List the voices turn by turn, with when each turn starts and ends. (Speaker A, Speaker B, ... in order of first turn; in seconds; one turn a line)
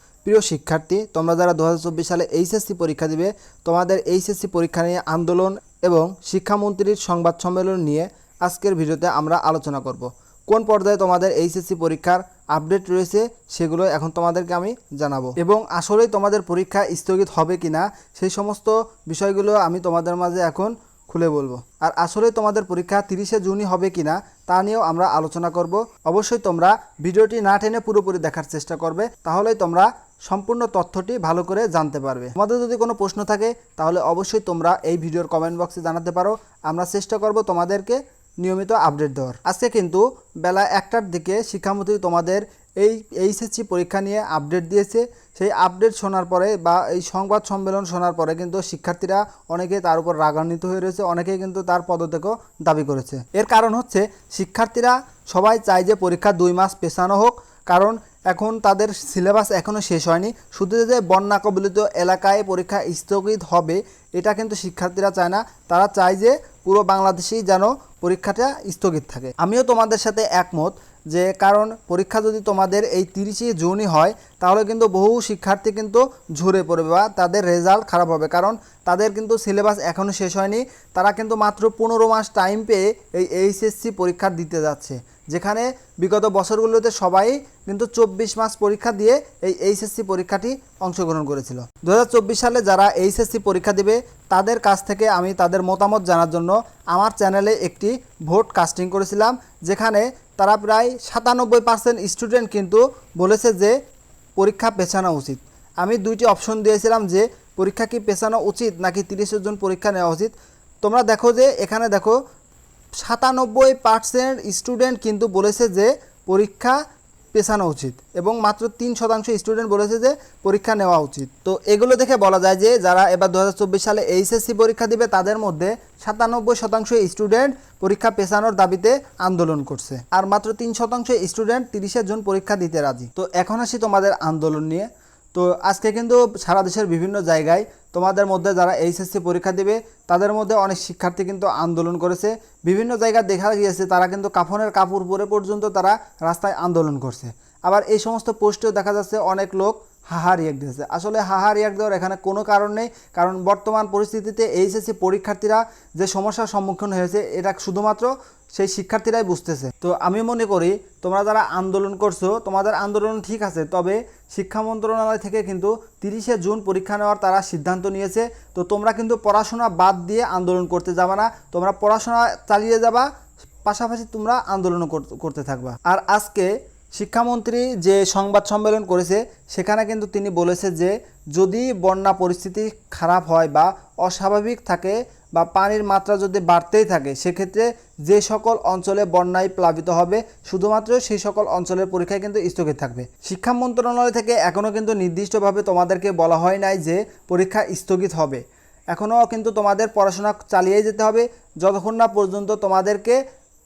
Speaker A: 0.2-103.8
Speaker A: 104.4-112.2
Speaker A: 113.0-116.8
Speaker A: 117.3-173.1
Speaker A: 173.7-203.2